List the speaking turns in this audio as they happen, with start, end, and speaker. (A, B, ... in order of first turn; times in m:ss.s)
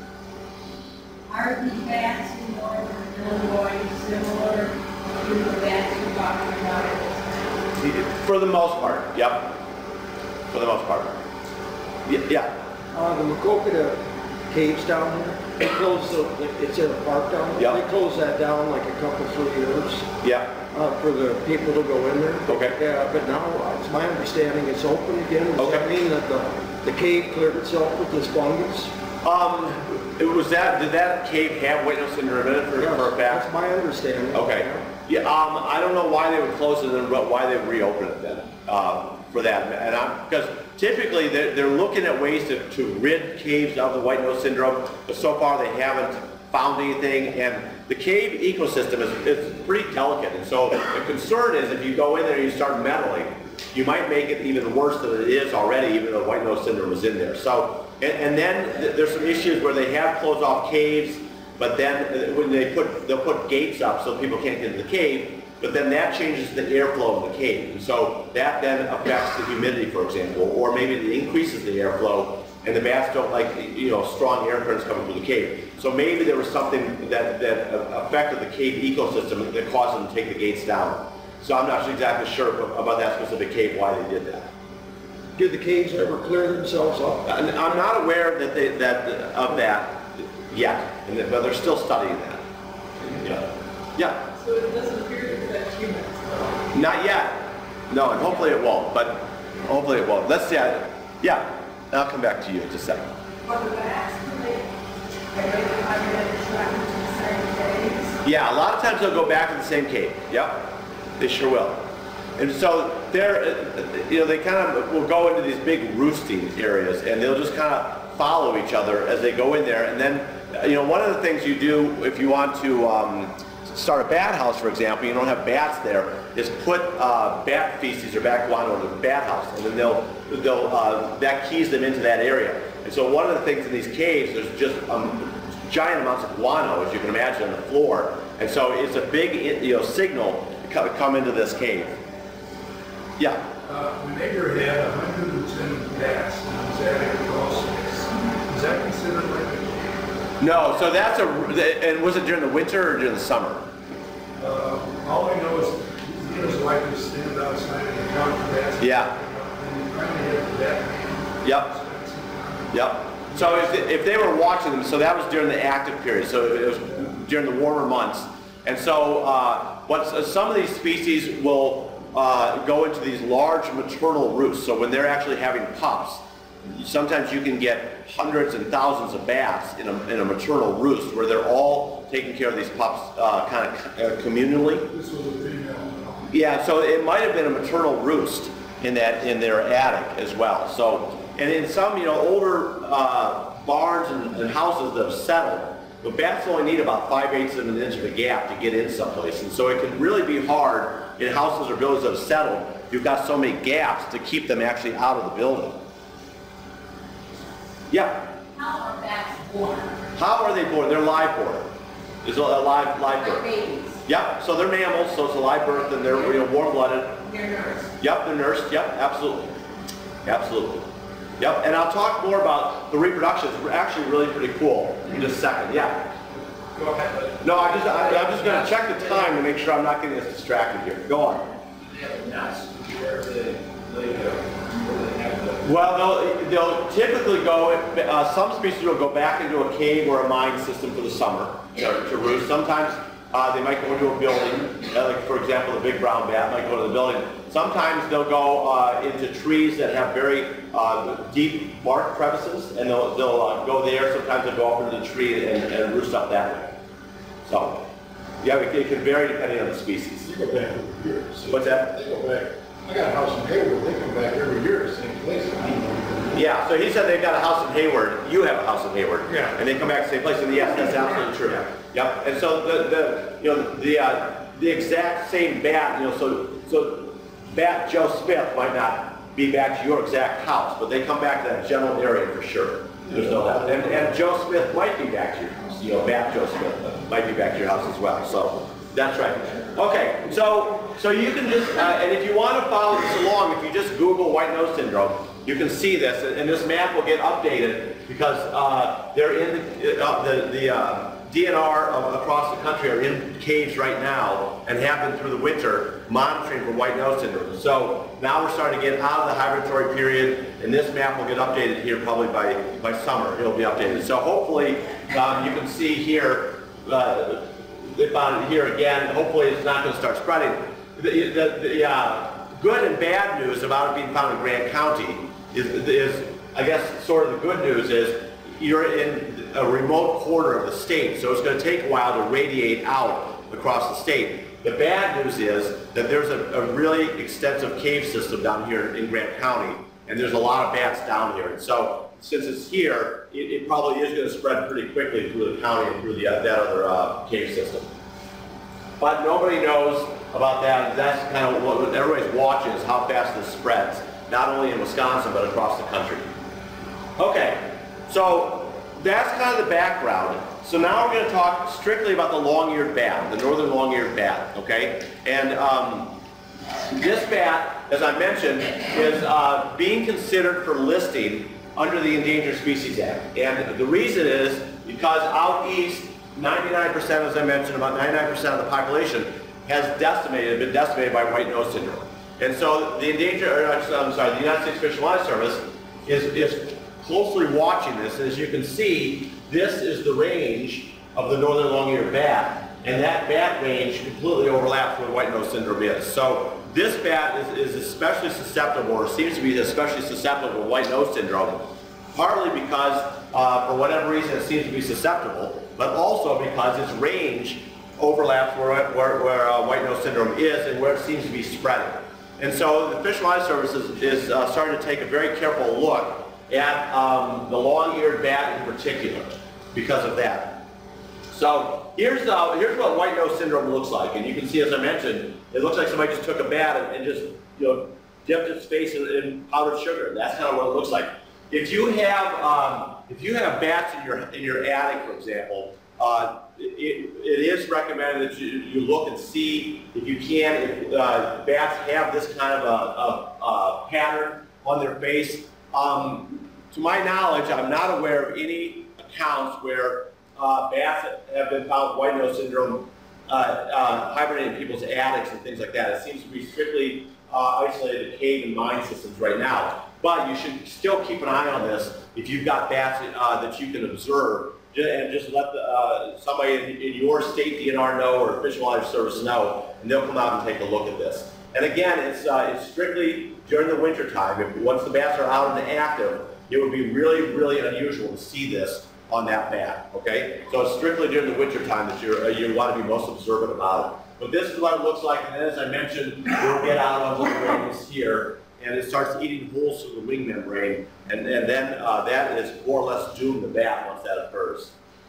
0:01.3-0:07.6 A
0:07.8-0:09.6 B
0:10.5-0:11.2 B
0:12.0-0:12.5 B
0:12.9-0:20.1 C
0:20.2-0:20.5 B
0:20.7-0:28.9 C
0:22.5-0:22.8 B
0:25.6-0:25.9 B
0:29.2-0:33.4 B
0:32.8-0:34.9 C
0:34.3-1:24.5 B
1:25.3-1:27.2 C
1:27.2-1:32.4 B
1:33.2-1:34.2 B
1:34.4-1:36.5 D
1:36.7-1:43.1 B
1:43.5-1:44.6 D
1:43.5-1:44.3 A
1:45.4-1:48.0 A
1:45.4-1:46.1 D
1:48.2-1:51.8 B
1:52.4-2:22.0 B
2:23.2-2:23.4 B
2:23.6-2:30.0 E
2:30.4-2:33.6 B
2:34.4-2:42.8 E
2:38.8-2:39.1 B
2:41.4-2:41.7 B
2:42.7-3:04.9 B
2:43.3-2:43.8 E
3:04.9-3:06.3 E
3:06.3-3:25.8 B
3:27.9-3:28.3 B
3:28.5-3:30.0 A
3:30.1-3:31.7 B
3:32.2-3:33.5 B
3:33.1-3:34.0 A
3:34.0-3:37.2 B
3:37.2-3:37.9 A
3:38.0-3:39.6 B
3:40.2-3:40.9 B
3:41.4-3:46.1 B
3:46.7-3:49.3 F
3:47.4-3:51.5 B
3:51.8-3:55.7 F
3:55.6-4:16.8 B
4:17.4-4:17.8 B
4:18.4-4:20.3 B
4:20.2-4:26.4 E
4:21.5-4:21.9 B
4:26.3-5:47.9 B
4:29.2-4:29.6 E
5:49.0-5:56.3 B
5:57.2-6:06.2 B
6:06.9-7:00.6 B
7:01.3-8:14.7 B